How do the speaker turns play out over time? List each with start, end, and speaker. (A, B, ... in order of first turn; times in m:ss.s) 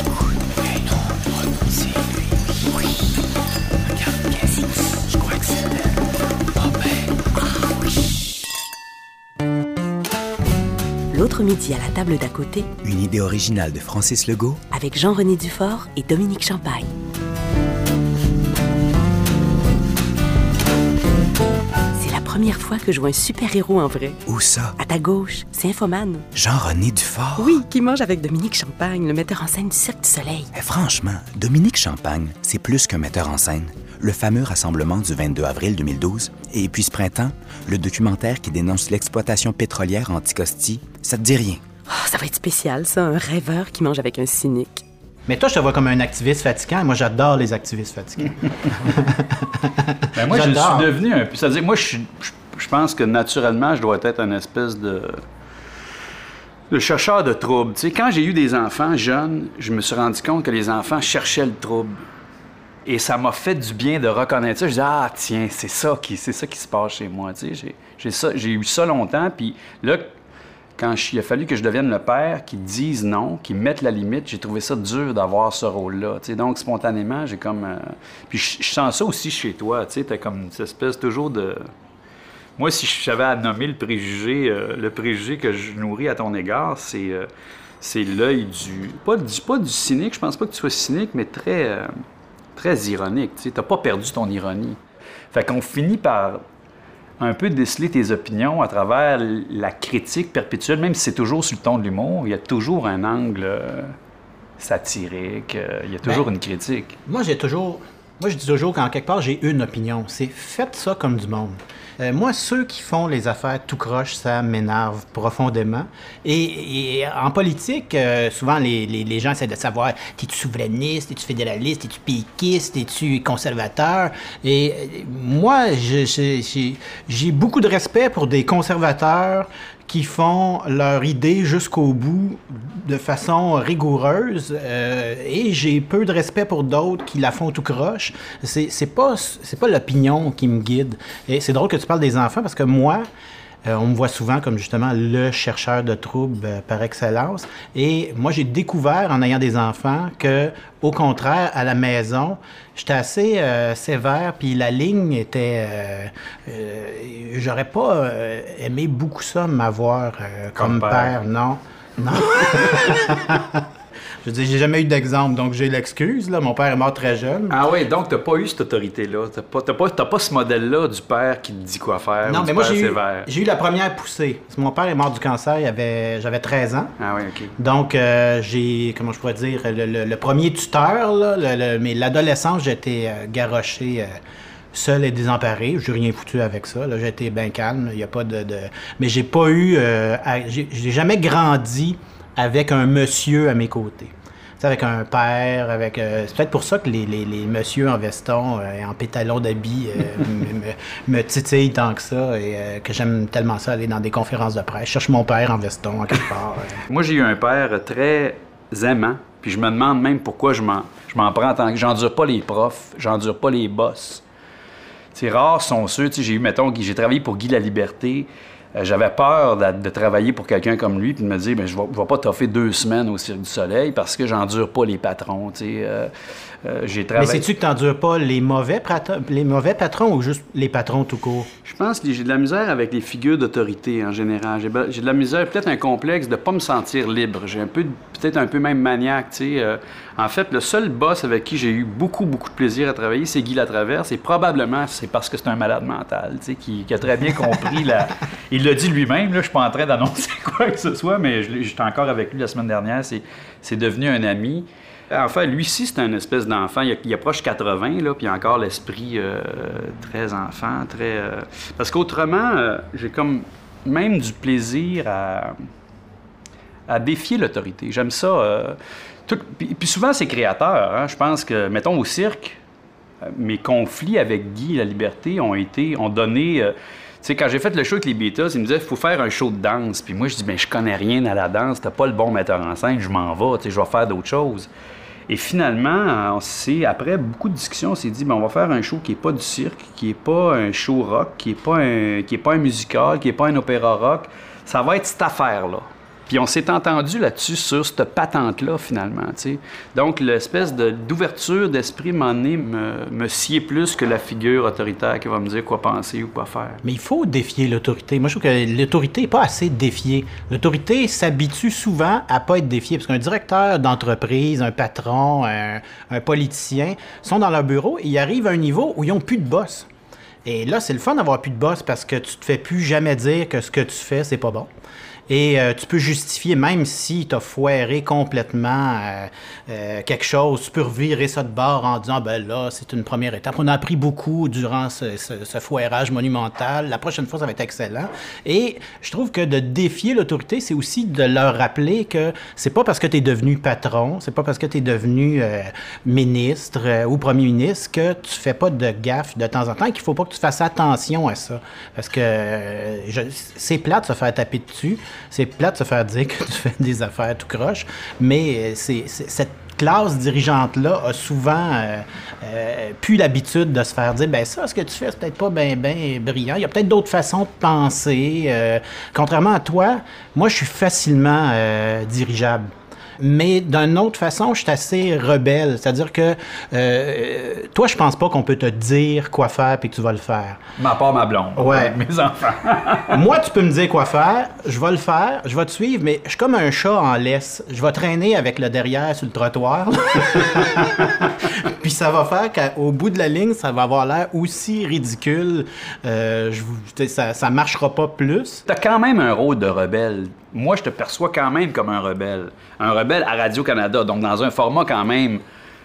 0:05.1-0:05.7 A
0:11.1-0:12.7 B
0:12.8-0:14.6 A
0:14.7-0:16.9 B
0:22.0-0:24.2 B
0:24.3-0:24.8 A
0:24.8-0:26.3 B
0:26.4-0:27.6 A
0:27.4-0:30.5 B
0:30.5-0:41.6 A
0:41.9-0:44.8 B
0:45.3-0:50.9 C
0:50.1-0:55.2 D
0:56.7-1:02.0 D
1:02.9-1:10.1 D
1:10.8-1:21.6 D
1:22.6-1:27.3 D
1:27.8-1:31.9 D
1:32.6-1:34.8 D
1:35.3-1:36.4 D
1:37.2-1:44.0 D
1:44.6-1:47.0 D
1:47.1-2:23.1 C
2:23.7-2:43.6 C
2:40.6-2:41.2 D
2:44.2-2:47.6 C
2:47.5-2:53.3 D
2:52.2-2:56.9 C
2:57.0-2:57.5 D
2:57.6-3:04.1 C
3:04.7-3:26.8 C
3:26.8-3:34.2 D
3:35.1-3:46.1 D
3:46.6-3:47.5 D
3:47.2-3:51.5 C
3:51.6-4:25.6 D
4:26.9-4:32.6 D
4:33.2-4:44.7 D
4:45.3-5:06.8 D
5:06.8-5:19.9 C
5:20.4-5:24.7 C
5:25.3-6:12.7 C
6:13.2-6:20.6 C
6:20.8-6:23.2 D
6:21.6-6:22.0 C
6:23.1-6:38.6 C
6:38.7-6:45.4 D